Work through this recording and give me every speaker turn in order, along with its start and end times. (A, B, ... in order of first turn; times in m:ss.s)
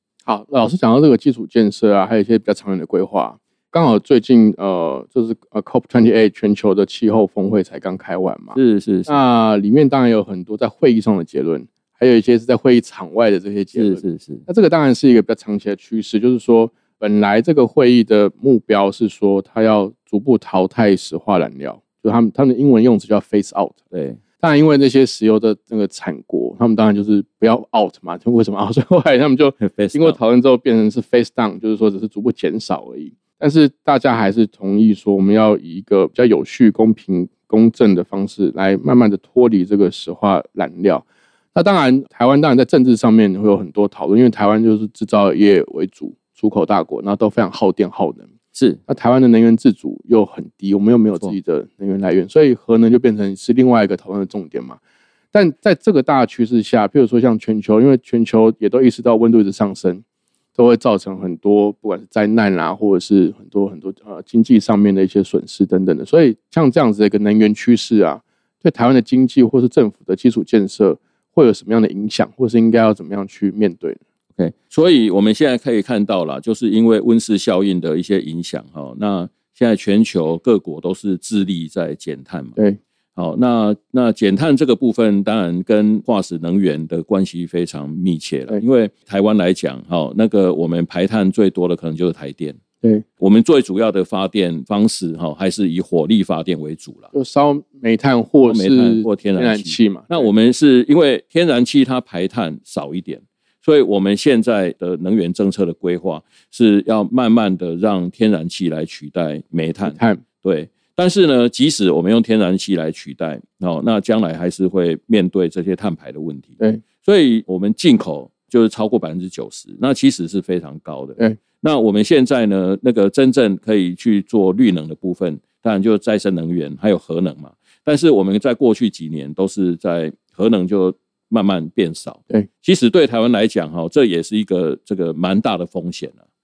0:00.2-0:23.8 A
0:08.6-0:09.2 B
0:13.7-0:14.4 B
0:23.9-0:24.2 B
0:24.4-0:48.3 A
0:29.6-0:30.2 B
0:48.5-0:48.8 B
0:48.9-0:54.8 A
0:55.3-1:00.0 A
1:00.6-1:14.0 A
1:14.4-1:22.6 B
1:23.1-1:32.6 B
1:33.2-1:37.1 B
1:37.1-1:40.3 A
1:38.5-2:16.2 B
1:49.8-1:50.2 A